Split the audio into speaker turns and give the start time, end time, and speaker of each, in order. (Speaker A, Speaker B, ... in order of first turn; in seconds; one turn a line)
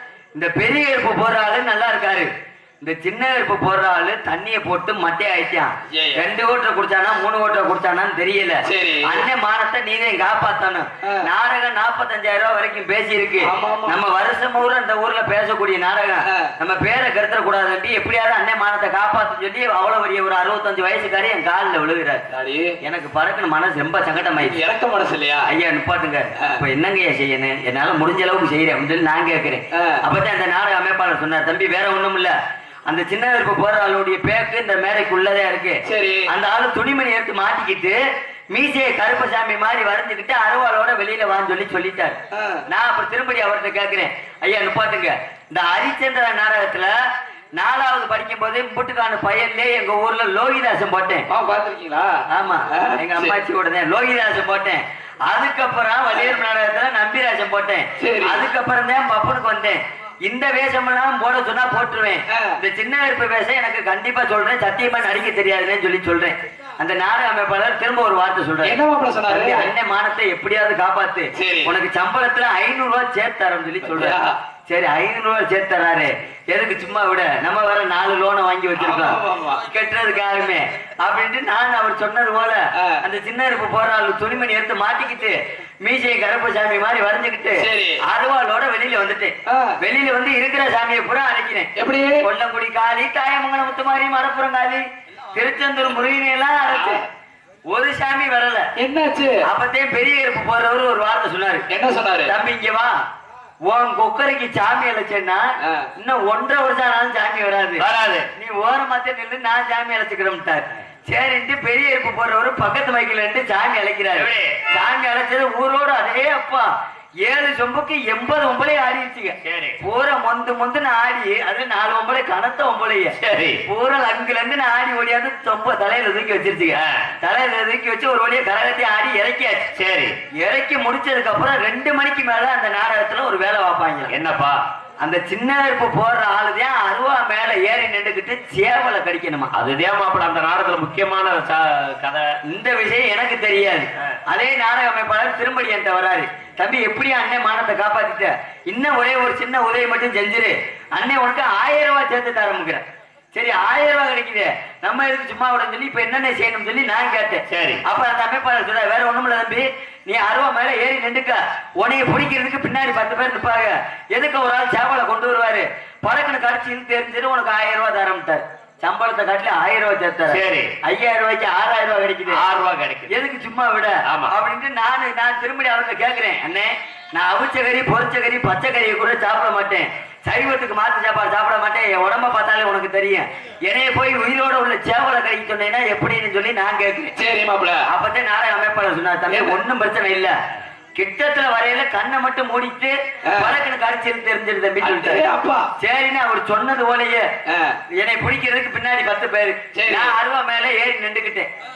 Speaker A: 0.4-2.3
Speaker A: 2.8-22.2
Speaker B: 5.9-6.2
Speaker B: 8.7-9.3
Speaker B: 13.4-14.0
Speaker B: 16.3-16.5
Speaker B: 22.3-22.8
Speaker A: 22.8-24.6
Speaker B: 24.4-25.5
Speaker A: 25.5-32.4
Speaker B: 29.7-30.0
Speaker A: 32.9-38.0
Speaker B: 35.9-36.3
Speaker A: 38.5-42.2
Speaker B: 42.3-42.6
Speaker A: 42.7-46.9
Speaker A: 47.6-51.3
Speaker B: 51.3-53.4
Speaker A: 52.3-97.0
Speaker B: 58.0-58.5
Speaker B: 62.3-62.6
Speaker B: 68.6-69.7
Speaker B: 71.3-71.7
Speaker B: 73.8-74.4
Speaker B: 78.8-79.6
Speaker B: 87.6-88.0
Speaker B: 89.5-89.8
Speaker B: 91.8-92.2
Speaker B: 96.7-97.0
Speaker A: 97.7-98.7
Speaker B: 98.8-99.4
Speaker A: 99.4-101.7
Speaker B: 101.7-102.3
Speaker A: 102.3-102.9
Speaker A: 103.7-105.4
Speaker B: 105.6-105.9
Speaker A: 106.0-107.8
Speaker C: 107.8-108.3
Speaker A: 108.4-116.7
Speaker C: 114.2-114.6
Speaker A: 117.2-129.7
Speaker C: 119.4-119.8
Speaker C: 123.2-123.6
Speaker C: 126.7-127.2
Speaker C: 129.8-130.2
Speaker A: 130.4-134.2
Speaker C: 134.1-134.7
Speaker A: 135.0-139.5
Speaker C: 139.5-142.3
Speaker A: 142.5-152.8
Speaker A: 153.3-172.4
Speaker C: 157.5-157.8
Speaker C: 170.3-170.7
Speaker C: 172.3-173.2
Speaker A: 173.1-187.2
Speaker C: 174.1-174.3
Speaker B: 187.2-187.8
Speaker A: 187.9-190.4
Speaker B: 189.3-189.6
Speaker A: 191.0-195.2
Speaker B: 193.3-193.6
Speaker B: 194.8-195.7
Speaker A: 195.8-197.3
Speaker B: 197.5-197.8
Speaker A: 197.9-201.5
Speaker B: 199.8-200.1